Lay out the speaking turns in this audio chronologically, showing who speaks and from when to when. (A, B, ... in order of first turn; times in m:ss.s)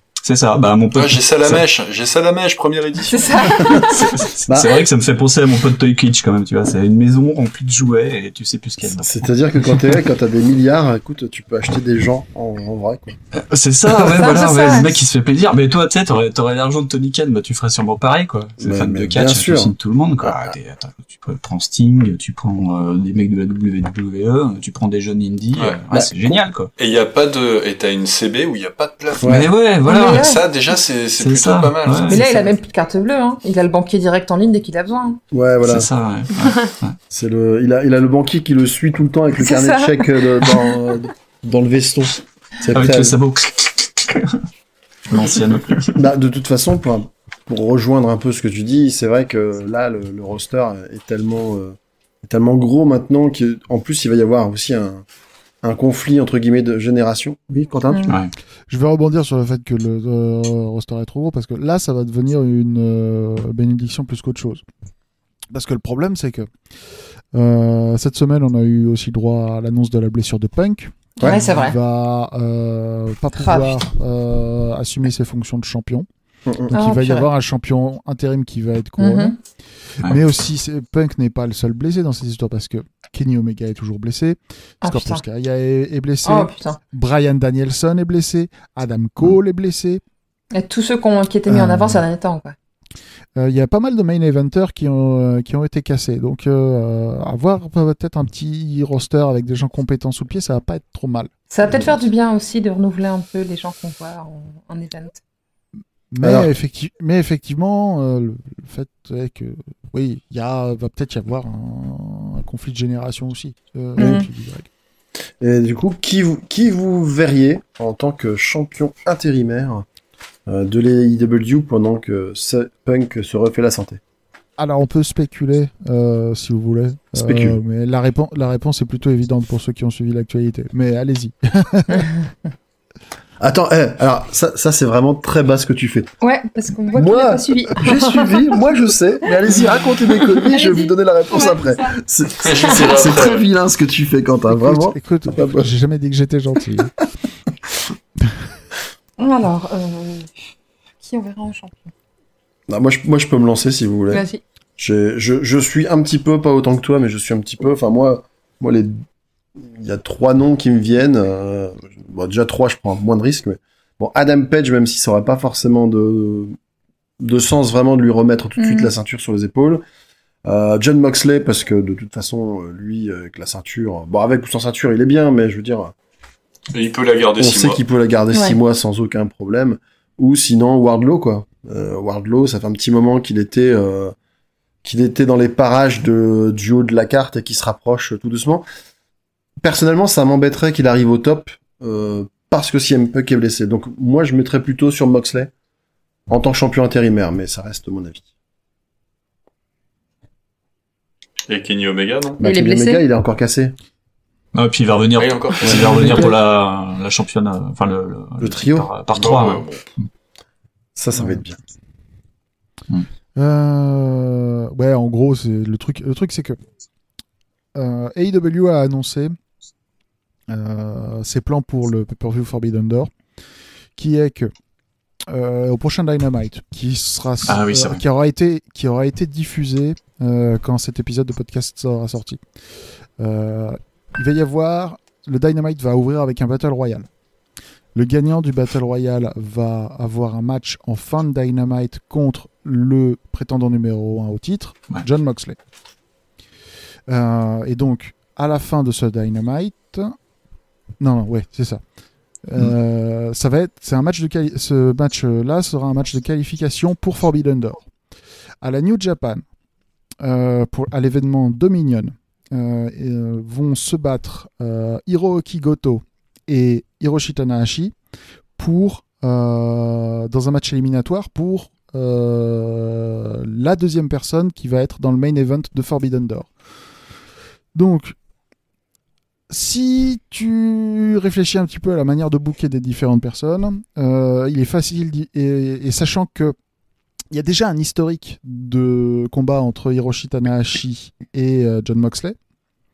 0:00.2-0:01.6 A
0:00.9-0:03.5 B
0:03.1-0:04.1 C
0:03.7-0:10.0 A
0:04.5-0:04.8 D
0:08.9-0:13.2 D
0:13.3-0:26.7 A
0:14.1-0:15.0 C
0:18.6-0:20.6 D
0:25.6-0:25.8 B
0:25.9-0:26.4 D
0:26.8-0:32.3 B
0:29.2-0:29.5 D
0:29.2-0:30.3 A
0:29.9-0:30.4 C
0:31.2-0:32.2 A
0:32.1-0:35.2 C
0:35.3-0:35.9 D
0:35.6-0:37.0 A
0:37.1-0:43.2 D
0:39.4-0:40.8 C
0:42.7-0:44.4 A
0:45.1-0:46.1 A
0:46.0-0:55.0 D
0:55.6-0:58.2 D
0:57.9-0:58.2 C
0:58.7-1:04.6 E
1:05.5-1:06.5 E
1:07.3-1:16.1 E
1:11.2-1:11.8 C
1:13.4-1:13.8 C
1:16.5-1:16.7 D
1:16.7-1:19.4 E
1:16.7-1:17.3 C
1:19.0-1:19.4 C
1:20.0-1:30.0 E
1:24.8-1:25.2 C
1:26.2-1:26.8 C
1:30.5-1:32.6 C
1:31.5-1:32.0 E
1:33.4-1:41.3 E
1:41.5-1:45.2 C
1:46.1-1:54.7 E
1:46.2-1:46.5 D
1:54.0-1:54.3 C
1:55.4-1:59.9 D
2:00.5-2:04.0 D
2:04.6-2:12.1 E
2:07.2-2:07.6 D
2:13.4-2:16.1 D
2:16.2-2:18.5 C
2:16.9-2:25.7 D
2:19.5-2:22.0 C
2:22.4-2:23.5 B
2:24.5-2:26.9 E
2:29.2-2:30.5 C
2:31.0-2:31.9 C
2:32.7-2:34.2 D
2:34.1-2:34.4 C
2:34.8-2:39.0 D
2:39.6-2:46.6 D
2:47.2-2:49.8 D
2:48.6-2:48.9 C
2:50.4-2:55.9 D
2:56.7-2:57.8 B
2:57.4-3:04.2 D
2:58.3-2:58.6 C
3:04.8-3:08.6 D
3:09.6-3:15.5 D
3:16.3-3:18.3 D
3:21.5-3:22.4 B
3:22.4-3:23.8 D
3:22.4-3:23.0 C
3:24.5-3:29.7 A
3:25.2-3:26.2 B
3:25.6-3:26.4 D
3:25.7-3:26.3 E
3:28.4-3:28.9 D
3:29.1-3:29.8 B
3:31.0-3:31.6 D
3:31.1-3:31.4 E
3:33.4-3:36.6 E
3:37.8-3:39.4 E
3:40.5-3:43.1 E
3:44.0-3:44.5 E
3:45.3-3:52.4 E
3:47.5-3:48.0 A
3:53.2-3:57.1 E
3:58.0-4:05.6 E
4:07.1-4:10.2 E
4:11.0-4:11.8 E
4:12.4-4:17.9 E
4:18.6-4:19.4 E
4:20.2-4:28.0 E
4:28.6-4:36.5 E
4:37.8-4:38.2 E
4:39.5-4:46.6 E
4:47.3-4:52.4 E